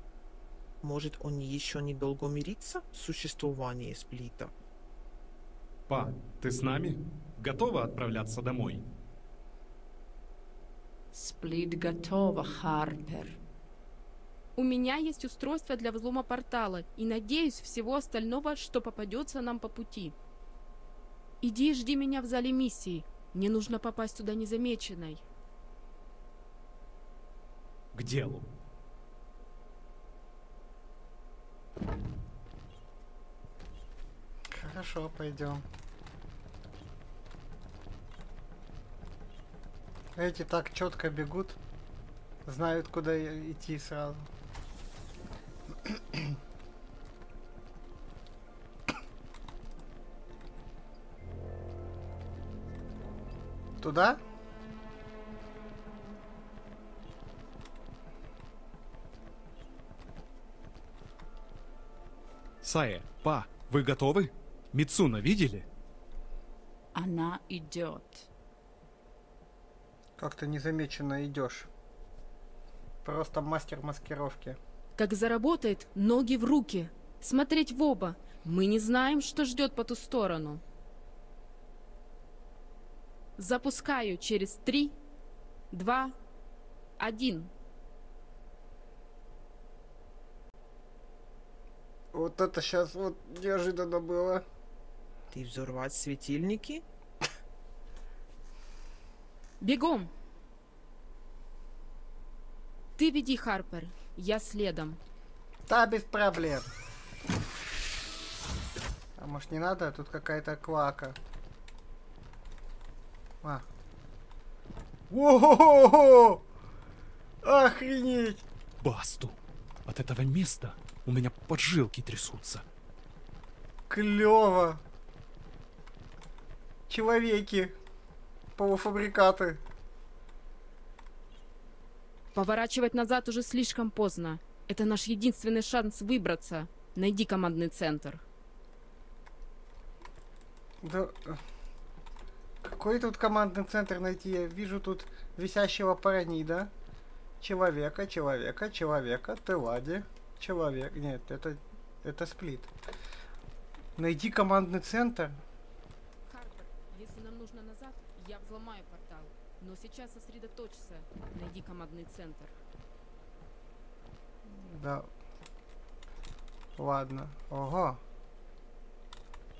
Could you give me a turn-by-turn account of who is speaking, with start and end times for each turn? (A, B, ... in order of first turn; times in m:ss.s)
0:00.8-0:04.5 A
0:05.9-0:08.8 B
0:11.1-0:13.4 C
0:14.5-0:20.2 D
0:21.4-0:25.2 D
0:27.9-0:28.4 B
0:34.5-0:35.6 E
0:40.2-0:41.6 E
0:42.4-0:44.3 E
0:53.8-0:54.2 E
1:02.6-1:05.6 B
1:06.9-1:08.3 C
1:10.2-1:11.7 E
1:13.0-1:14.6 E
1:15.0-1:20.6 D
1:23.4-1:25.0 D
1:25.7-1:26.1 D
1:27.0-1:27.5 D
1:32.1-1:34.4 E
1:35.3-1:36.8 A
1:39.6-1:40.1 D
1:43.0-1:45.0 D
1:45.7-1:46.7 E
1:49.2-1:51.2 E
1:55.1-1:56.4 E
1:57.4-1:58.4 E
1:58.8-2:02.6 B
2:03.9-2:04.8 E
2:06.9-2:07.7 E
2:08.6-2:09.6 E
2:12.3-2:18.2 D
2:20.8-2:21.4 E
2:22.6-2:26.7 E
2:27.4-2:32.7 E
2:34.0-2:35.4 E
2:36.3-2:42.5 D
2:44.4-2:45.1 E
2:46.8-2:48.0 E